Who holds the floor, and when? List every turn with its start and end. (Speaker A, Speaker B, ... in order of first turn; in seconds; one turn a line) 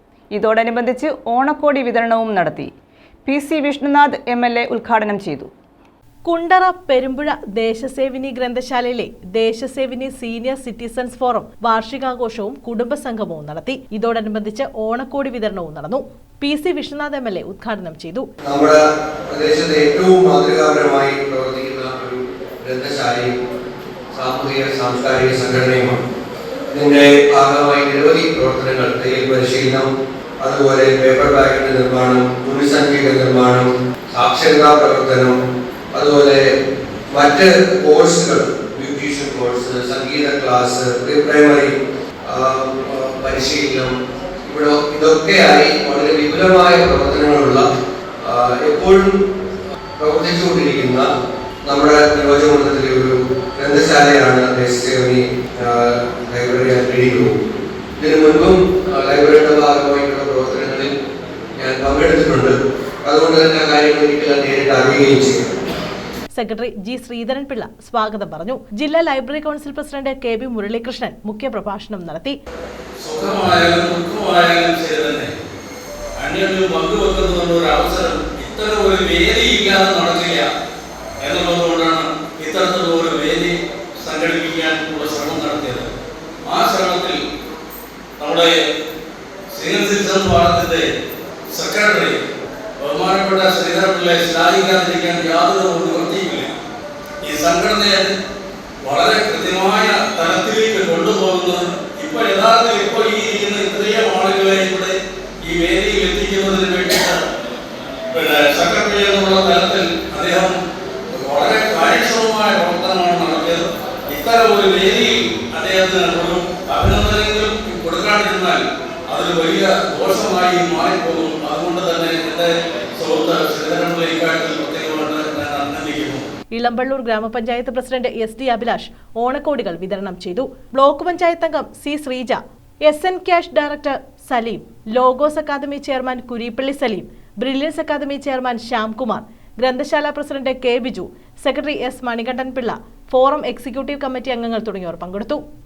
Speaker A: 0.3-2.7
Speaker A: 3.2-5.5
Speaker B: 6.2-18.3
Speaker C: 18.5-18.8
Speaker C: 19.3-23.3
Speaker C: 24.1-26.0
Speaker C: 26.7-29.9
Speaker C: 30.4-35.3
Speaker C: 35.9-36.4
Speaker C: 37.1-41.7
Speaker C: 42.2-43.9
Speaker C: 44.5-47.6
Speaker C: 48.2-49.1
Speaker C: 50.0-51.0
Speaker C: 51.7-57.4
Speaker C: 58.0-60.9
Speaker C: 61.5-62.5
Speaker C: 63.0-65.4
Speaker B: 66.3-72.4
Speaker D: 73.0-75.3
Speaker D: 76.2-80.5
Speaker D: 81.2-85.9
Speaker D: 86.5-87.2
Speaker D: 88.2-88.5
Speaker D: 89.5-90.9
Speaker D: 91.5-92.2
Speaker D: 92.8-96.5
Speaker D: 97.2-98.1
Speaker D: 98.8-107.2
Speaker D: 108.1-110.6
Speaker D: 111.1-126.2
Speaker B: 126.5-145.4